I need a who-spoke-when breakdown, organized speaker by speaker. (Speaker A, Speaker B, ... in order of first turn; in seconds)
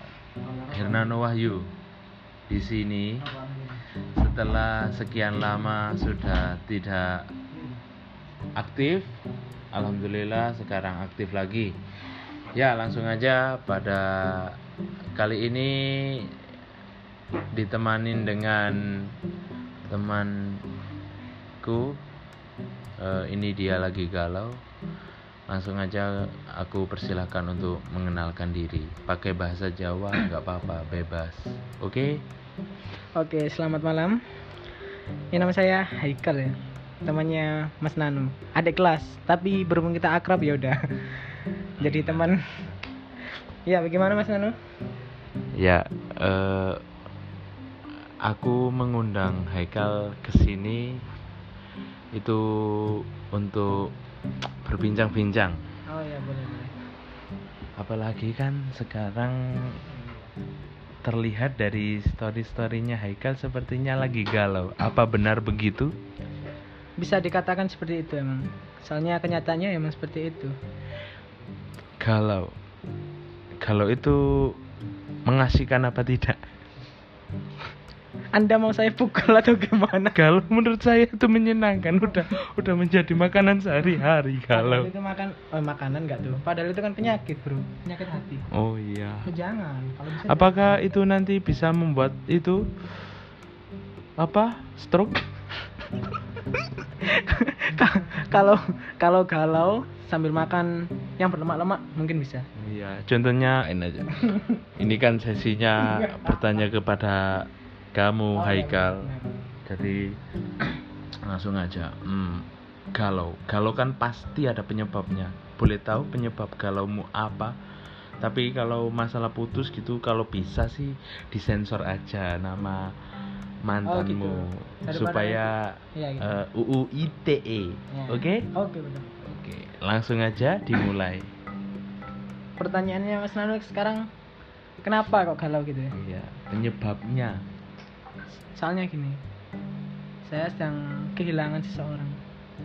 Speaker A: 0.6-1.7, 2.5-3.2, 4.1-7.3, 8.6-9.1, 9.7-11.8, 12.5-14.6, 15.1-16.3, 17.5-19.1, 19.8-20.6, 21.6-22.0, 23.0-24.6, 25.5-32.2, 41.8-42.4, 45.6-46.8, 48.2-51.0, 52.1-53.9, 54.6-55.6, 57.8-59.8, 61.0-65.9, 72.0-72.5, 73.6-74.6, 75.2-76.4, 80.1-84.9, 88.5-89.3, 90.2-92.9, 94.2-95.4, 102.6-109.1, 109.6-110.2, 111.2-117.6, 118.2-122.9, 123.6-128.4, 129.2-131.3, 135.9-137.4
Speaker B: 33.1-34.2, 35.3-42.5, 43.7-44.5, 55.9-56.8, 67.0-70.5, 78.3-80.2, 84.5-88.5, 89.2-90.8, 97.0-102.5, 104.3-104.6, 105.8-106.5, 108.3-109.4, 123.8-126.4, 127.9-129.1, 132.6-134.1, 134.8-135.9, 138.6-139.2, 140.2-142.2